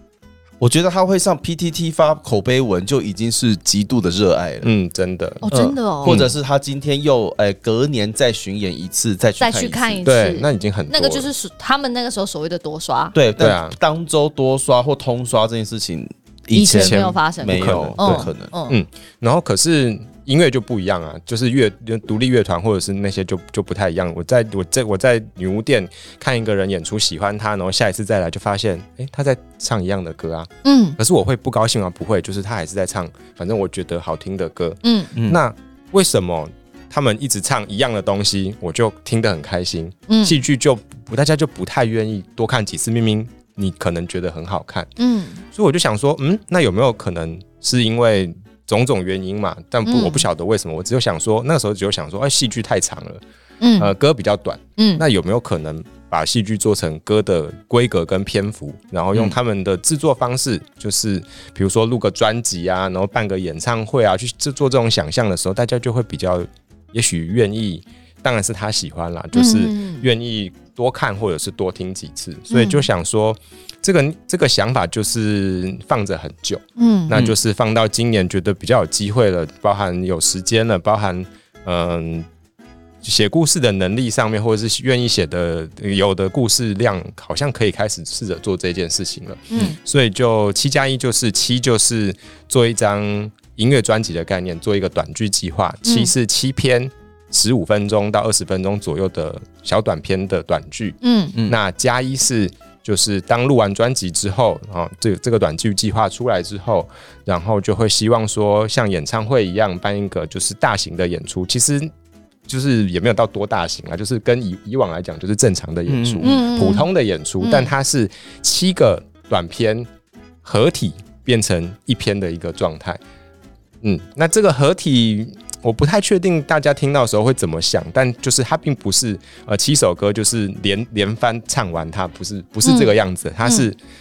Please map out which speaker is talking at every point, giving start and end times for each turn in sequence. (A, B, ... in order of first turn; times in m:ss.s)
0:00.6-0:04.7 A
0:04.6-0:05.5 B
0:05.4-0:06.2 C
0:05.5-0:10.0 A
0:06.0-0:06.3 B
0:09.4-0:13.2 C
0:10.0-0:11.3 B
0:13.1-0:18.5 A
0:13.4-0:13.8 B
0:16.5-0:18.8 C
0:16.7-0:44.9 B
0:30.6-0:31.0 C
0:34.8-0:35.1 C
0:40.1-0:40.4 C
0:45.0-0:45.4 C
0:45.5-0:53.2 B
0:49.9-0:50.3 C
0:53.6-0:53.9 C
0:53.8-1:22.3 B
0:54.8-0:55.0 C
1:09.4-1:10.1 C
1:12.5-1:12.9 C
1:16.8-1:17.1 C
1:23.0-1:51.9 B
1:29.5-1:29.8 C
1:35.8-1:36.1 C
1:41.0-1:41.4 C
1:52.5-1:59.9 B
1:55.9-1:56.3 A
1:56.2-1:56.9 C
1:57.4-1:57.7 C
2:00.4-2:03.0 B
2:03.8-2:13.8 B
2:12.6-2:13.7 C